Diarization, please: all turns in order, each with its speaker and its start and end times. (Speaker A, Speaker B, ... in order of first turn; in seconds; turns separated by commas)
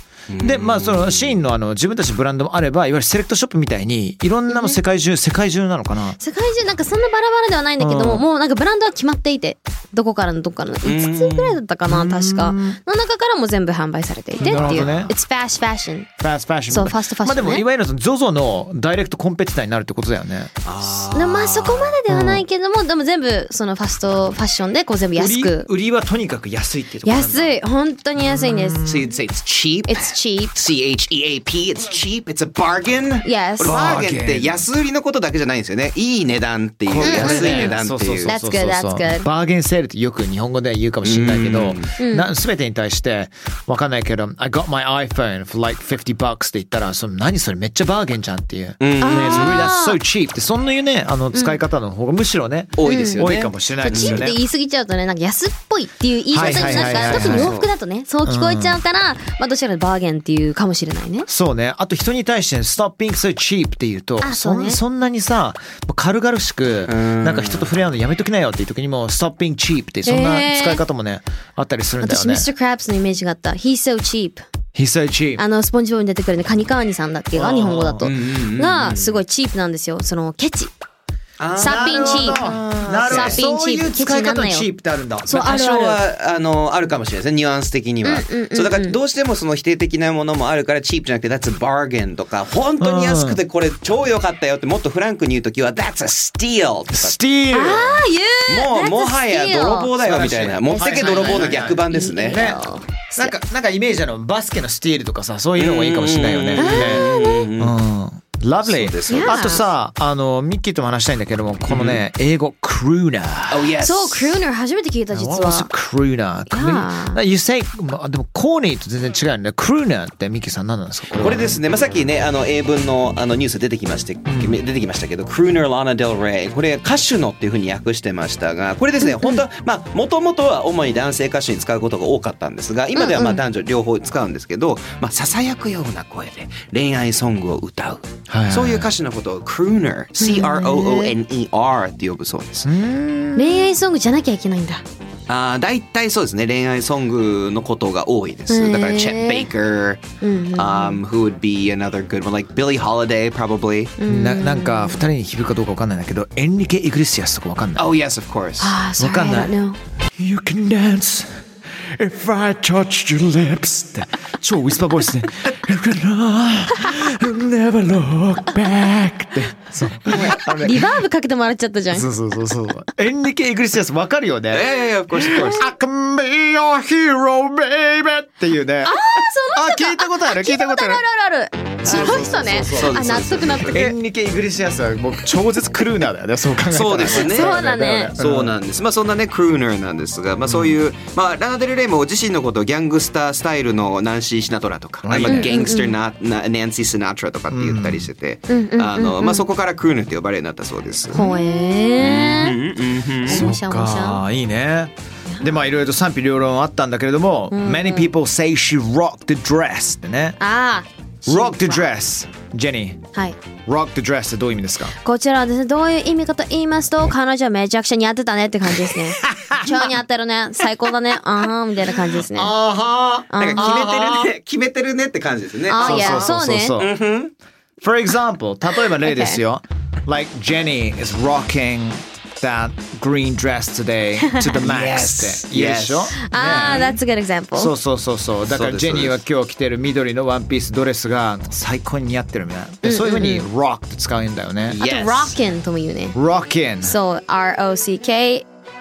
Speaker A: 0.3-1.4, Speaker B: 0.4-6.2, Speaker C: 4.5-4.8, Speaker C: 6.2-16.1, Speaker B: 7.8-8.2, Speaker A: 10.8-11.6, Speaker B: 11.8-12.8, Speaker A: 14.4-15.1, Speaker B: 14.4-15.1, Speaker B: 16.2-20.5, Speaker C: 16.7-17.6, Speaker A: 20.6-22.0, Speaker C: 20.9-25.7, Speaker B: 22.1-22.4, Speaker B: 25.1-27.6, Speaker C: 27.0-28.9, Speaker B: 28.2-29.1, Speaker A: 28.8-38.3, Speaker C: 29.9-30.5, Speaker C: 33.2-33.8, Speaker B: 33.6-34.6, Speaker B: 36.9-54.4, Speaker C: 37.0-39.3, Speaker A: 41.0-41.9, Speaker C: 42.0-42.3, Speaker A: 48.8-49.6, Speaker C: 49.0-50.0, Speaker C: 51.3-51.6, Speaker A: 52.8-54.3, Speaker C: 52.8-61.3, Speaker B: 56.3-57.6, Speaker A: 56.4-57.7, Speaker B: 58.2-58.8, Speaker B: 61.3-72.5, Speaker C: 64.2-64.8, Speaker A: 66.9-67.7, Speaker C: 70.0-70.8, Speaker C: 72.0-74.4, Speaker B: 74.8-75.4, Speaker C: 75.4-80.7, Speaker B: 77.3-78.1, Speaker A: 78.0-79.1, Speaker A: 81.4-83.4, Speaker B: 81.6-85.4, Speaker C: 81.6-84.7, Speaker C: 85.3-86.0, Speaker A: 85.3-97.2, Speaker C: 88.0-89.0, Speaker B: 92.8-93.4, Speaker B: 96.9-98.0, Speaker C: 97.5-100.0, Speaker A: 98.5-102.4, Speaker B: 100.0-102.6, Speaker C: 100.6-103.4, Speaker B: 103.2-107.1, Speaker A: 105.6-107.8, Speaker C: 106.6-107.5, Speaker B: 107.6-113.7, Speaker A: 108.6-109.6, Speaker C: 109.1-109.6, Speaker A: 111.7-112.0, Speaker A: 113.5-114.4, Speaker C: 113.8-115.7, Speaker B: 115.1-121.6, Speaker C: 116.5-117.2, Speaker A: 121.1-142.7, Speaker B: 124.2-124.6, Speaker C: 132.9-133.4, Speaker B: 138.3-138.9, Speaker C: 140.2-141.1, Speaker B: 142.6-143.7, Speaker C: 143.3-144.8, Speaker A: 145.3-150.0, Speaker C: 148.5-149.5, Speaker C: 150.2-151.0, Speaker A: 150.6-153.9, Speaker C: 154.0-155.0, Speaker B: 154.1-157.9, Speaker A: 157.8-158.8, Speaker C: 158.6-159.8, Speaker B: 159.0-159.5, Speaker B: 160.2-161.4, Speaker B: 162.0-170.9, Speaker C: 170.1-172.1, Speaker B: 171.9-181.0, Speaker A: 174.5-175.7, Speaker C: 178.8-183.9, Speaker B: 181.8-183.1, Speaker A: 182.4-183.9, Speaker B: 183.7-188.5, Speaker A: 186.7-187.6, Speaker C: 187.1-188.1, Speaker A: 188.2-201.2, Speaker B: 190.5-190.8, Speaker B: 195.0-195.6, Speaker C: 195.2-196.0, Speaker B: 197.5-198.1, Speaker C: 198.5-199.4, Speaker C: 201.1-202.5, Speaker A: 202.0-203.5, Speaker B: 203.2-210.4, Speaker C: 203.2-204.2, Speaker C: 207.5-208.1, Speaker C: 210.4-211.9, Speaker B: 211.3-213.0, Speaker B: 213.7-214.9, Speaker C: 215.0-222.6, Speaker B: 218.9-220.0, Speaker B: 222.3-224.3, Speaker C: 223.3-223.9, Speaker A: 223.4-227.3, Speaker C: 225.7-226.8, Speaker B: 225.7-226.9, Speaker B: 227.8-236.9, Speaker C: 229.0-229.4, Speaker A: 234.6-237.0, Speaker C: 236.3-237.7, Speaker B: 237.5-244.8, Speaker A: 238.4-239.2, Speaker C: 242.8-243.4, Speaker A: 244.7-245.4, Speaker C: 244.8-246.2, Speaker B: 246.1-247.0, Speaker C: 246.8-248.5